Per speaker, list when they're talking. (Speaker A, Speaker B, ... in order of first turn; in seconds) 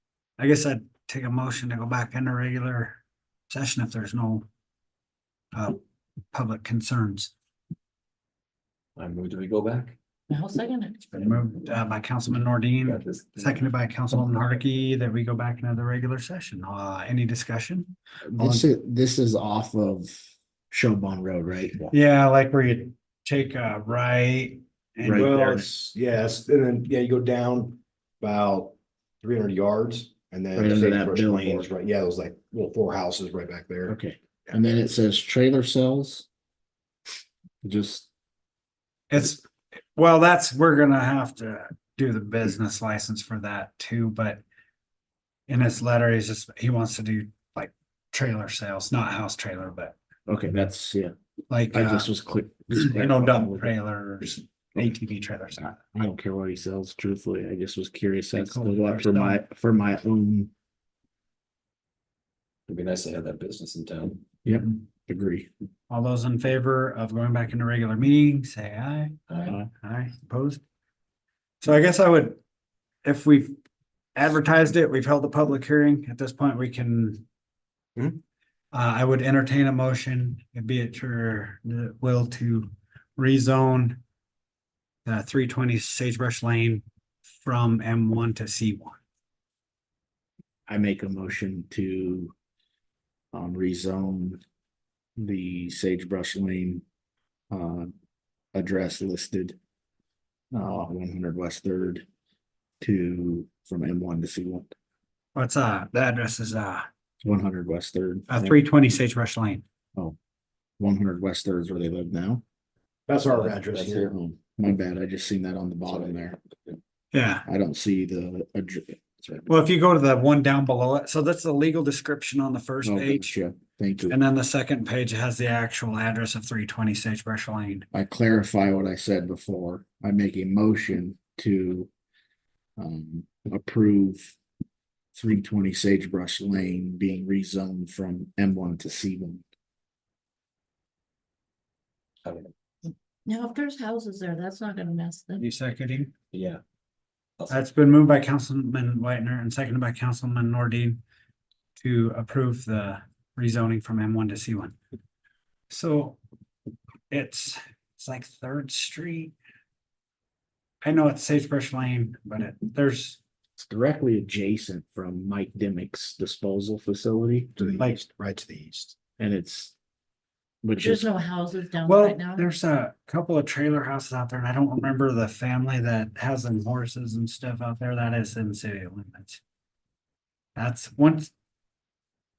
Speaker A: 0.4-3.0, 3.5-4.5, 5.5-5.8, 6.3-7.3, 11.1-18.6, 21.9-25.6, 39.1-44.4, 45.5-50.0, 51.5-52.1, 52.7-55.8, 58.3-59.4, 65.9-69.2, 69.7-70.6, 71.6-72.4, 73.0-73.6, 74.2-77.2, 78.7-84.0, 85.0-86.8, 87.4-89.0, 105.3-106.9, 108.3-109.6, 117.1-117.5, 119.5-123.3, 124.1-127.8, 145.4-146.1, 147.5-151.0, 151.8-154.8, 155.7-156.2, 157.1-159.3, 160.8-163.2, 171.8-179.4, 180.6-181.3
Speaker B: 8.9-9.9, 12.8-13.7, 62.7-64.2, 69.3-69.6, 113.3-114.1, 142.2-142.5, 146.3-146.6
Speaker C: 10.3-11.1, 143.2-145.4, 170.8-172.5
Speaker D: 18.2-21.9, 25.0-25.7, 30.6-31.7, 33.9-36.3, 37.6-38.1, 50.3-51.1, 51.7-53.7, 55.6-60.5, 64.4-65.5, 90.7-92.3, 93.3-94.4, 95.2-96.8, 97.5-97.9, 98.5-99.6, 100.5-102.0, 102.8-104.7, 107.2-108.6, 110.8-112.4, 113.9-116.4, 117.5-119.5, 122.8-124.2, 127.9-131.9, 132.8-134.3, 135.1-139.4, 163.6-167.8, 169.2-169.7, 170.6-171.1
Speaker E: 25.1-34.0, 113.1-114.1, 167.6-168.9